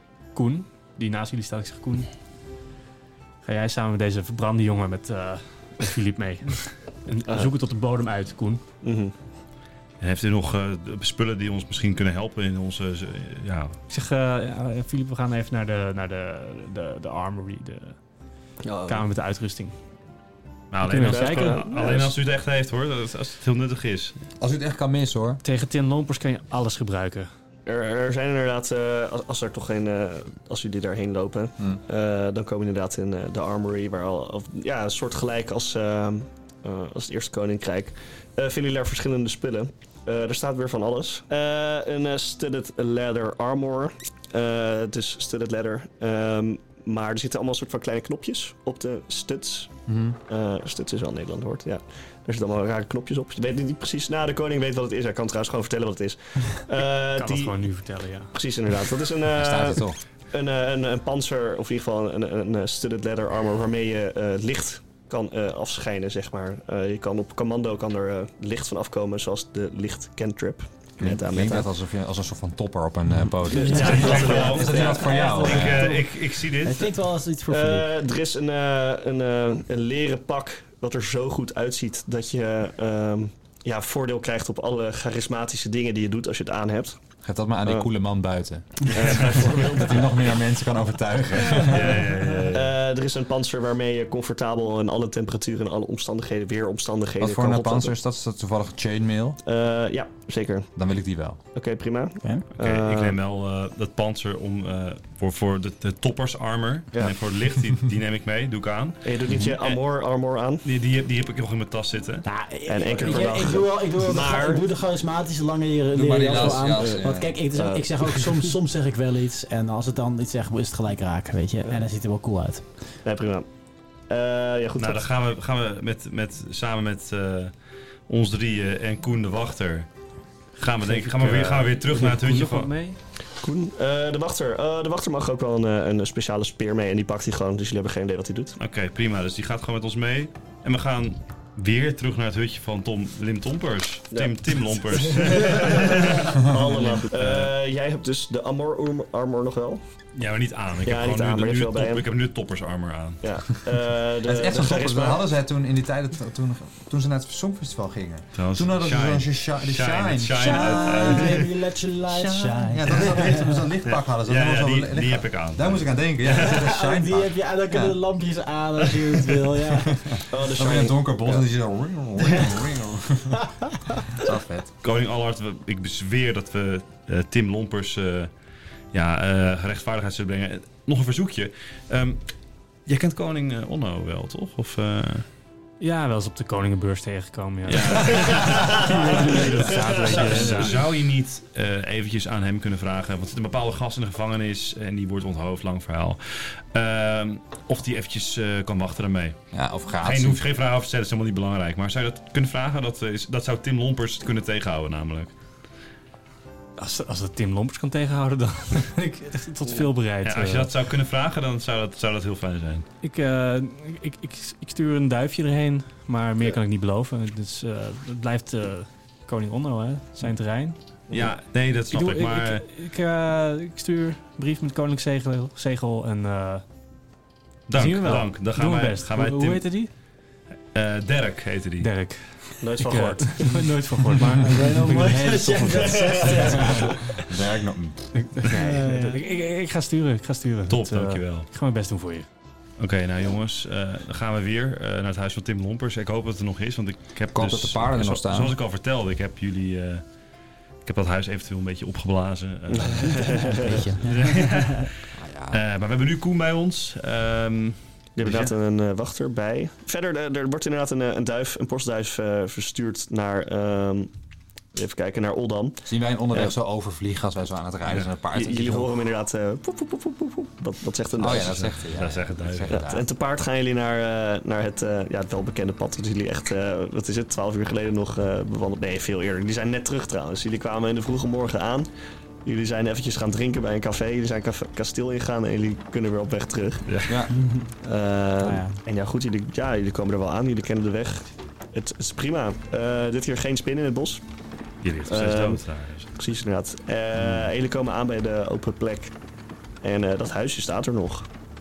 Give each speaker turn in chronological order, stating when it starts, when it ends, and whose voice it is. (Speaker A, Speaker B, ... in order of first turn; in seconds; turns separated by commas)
Speaker A: 0.3-2.1, Speaker A: 3.4-8.6, Speaker B: 8.8-9.1, Speaker C: 10.0-13.8, Speaker A: 13.9-18.0, Speaker B: 18.6-19.1, Speaker A: 18.9-19.7, Speaker C: 20.7-24.1, Speaker A: 20.8-21.6, Speaker B: 21.1-22.1, Speaker D: 24.4-25.4, Speaker A: 25.4-27.3, Speaker B: 27.6-57.6, Speaker D: 49.9-50.2, Speaker A: 57.1-58.3, Speaker B: 58.3-71.7, Speaker D: 59.3-60.0, Speaker D: 71.0-75.9, Speaker E: 73.5-77.9, Speaker B: 73.5-75.1, Speaker C: 73.9-76.9, Speaker B: 77.5-87.0, Speaker D: 87.2-92.0, Speaker B: 88.9-90.4, Speaker C: 91.7-92.8, Speaker B: 92.5-97.9, Speaker D: 97.2-99.4, Speaker B: 99.4-100.7, Speaker D: 100.8-101.4, Speaker B: 101.5-103.2, Speaker C: 102.6-109.8, Speaker B: 109.0-110.6, Speaker C: 110.6-112.2, Speaker E: 112.2-122.6, Speaker B: 112.7-114.6, Speaker D: 115.9-117.4, Speaker B: 116.3-117.0, Speaker B: 117.5-118.5, Speaker B: 123.0-123.5, Speaker B: 124.1-125.0, Speaker C: 124.8-127.5, Speaker C: 128.1-129.9, Speaker C: 130.6-132.7, Speaker A: 130.8-133.0, Speaker B: 133.4-138.6, Speaker C: 138.6-147.5, Speaker B: 144.9-149.8, Speaker C: 150.1-153.2, Speaker B: 150.8-152.0, Speaker B: 153.2-155.3, Speaker D: 154.2-161.3, Speaker C: 158.3-161.5, Speaker E: 160.3-163.6, Speaker D: 162.1-167.9, Speaker C: 163.8-166.6, Speaker E: 166.4-170.0, Speaker D: 170.0-174.7, Speaker B: 170.3-171.4, Speaker C: 174.8-178.3, Speaker C: 178.9-182.2, Speaker C: 182.8-185.2, Speaker A: 185.8-190.8, Speaker C: 187.7-188.9, Speaker B: 188.1-190.8, Speaker C: 190.1-199.4, Speaker D: 199.5-200.4, Speaker C: 200.0-205.3, Speaker A: 206.8-210.7, Speaker C: 210.2-212.8, Speaker A: 213.0-221.0, Speaker B: 221.1-221.3, Speaker C: 221.1-222.7, Speaker A: 221.9-226.6, Speaker C: 227.7-229.8, Speaker A: 227.7-229.9, Speaker C: 230.7-231.9, Speaker A: 231.8-236.9, Speaker B: 232.6-233.7, Speaker E: 234.4-237.2, Speaker B: 235.9-236.7, Speaker D: 237.3-238.1, Speaker A: 238.1-242.3, Speaker E: 238.5-239.2, Speaker C: 240.7-241.5, Speaker C: 242.8-250.0, Speaker D: 247.3-248.6, Speaker C: 250.8-258.5, Speaker B: 252.7-253.8, Speaker E: 253.5-254.8, Speaker D: 255.2-255.6, Speaker B: 258.1-264.1, Speaker B: 264.7-266.5, Speaker D: 265.8-268.9, Speaker B: 268.3-271.7, Speaker D: 271.2-273.1, Speaker C: 271.3-272.8, Speaker B: 272.7-281.9, Speaker B: 282.4-287.1, Speaker C: 286.9-287.1, Speaker D: 287.1-287.3, Speaker E: 287.3-287.7, Speaker B: 287.8-294.2, Speaker E: 288.4-288.8, Speaker C: 294.8-296.1, Speaker B: 295.1-295.6, Speaker B: 296.1-299.1, Speaker D: 297.2-297.5, Speaker B: 299.8-301.3